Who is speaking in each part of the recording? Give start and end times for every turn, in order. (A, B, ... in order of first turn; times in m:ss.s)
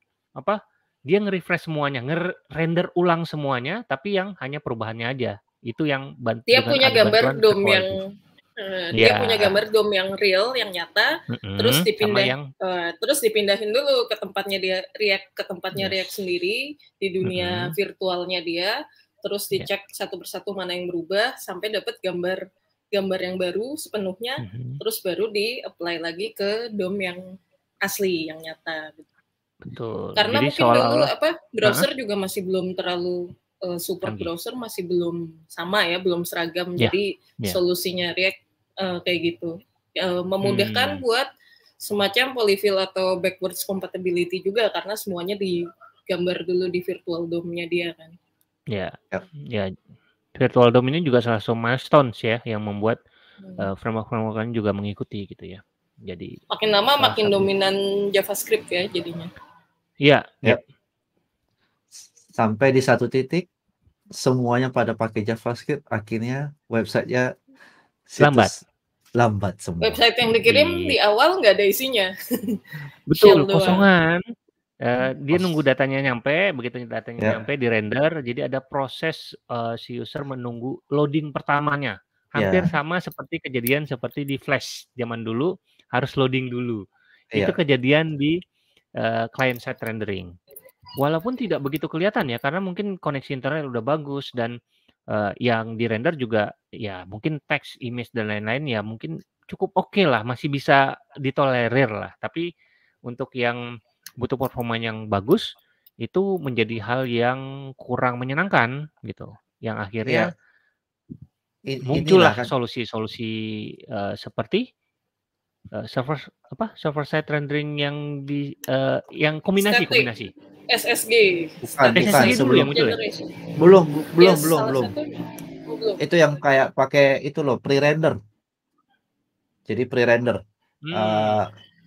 0:00.4-0:08.0 A
0:06.5-0:27.2 B
0:08.9-0:09.6 A
0:11.3-0:12.5 A
0:15.8-0:16.1 A
0:17.2-0:17.8 A
0:24.4-0:24.8 A
0:27.8-0:29.1 B
0:29.7-0:31.1 A
0:30.2-0:41.3 B
0:34.0-0:34.3 A
0:36.8-0:37.6 A
0:40.4-0:41.0 A
0:41.8-0:48.1 B
0:48.7-0:49.7 A
0:50.4-0:53.0 A
0:53.4-0:53.7 B
0:53.6-0:56.4 A
0:56.5-0:59.3 B
0:57.0-0:57.5 A
1:00.0-1:00.6 A
1:02.3-1:03.5 C
1:04.2-1:07.3 C
1:08.1-1:08.6 C
1:08.2-1:08.5 A
1:09.2-1:10.0 C
1:09.8-1:12.6 B
1:10.5-1:11.0 A
1:13.1-1:14.2 A
1:13.2-1:13.8 B
1:14.8-1:26.8 A
1:15.3-1:15.6 C
1:22.4-1:22.7 C
1:27.4-1:28.4 A
1:29.0-1:30.3 A
1:31.0-1:34.6 A
1:35.1-1:42.5 A
1:43.1-1:43.6 A
1:44.2-1:45.5 A
1:46.0-1:50.3 A
1:50.0-1:50.3 C
1:51.7-1:52.5 C
1:51.9-1:53.4 A
1:53.9-1:54.7 A
1:55.8-2:00.3 A
1:59.6-2:00.1 B
2:00.7-2:03.4 B
2:01.6-2:02.7 C
2:02.0-2:03.0 A
2:03.6-2:04.9 C
2:04.2-2:05.1 B
2:05.7-2:06.0 B
2:06.0-2:08.2 C
2:09.7-2:10.4 C
2:10.9-2:11.4 A
2:10.9-2:11.5 C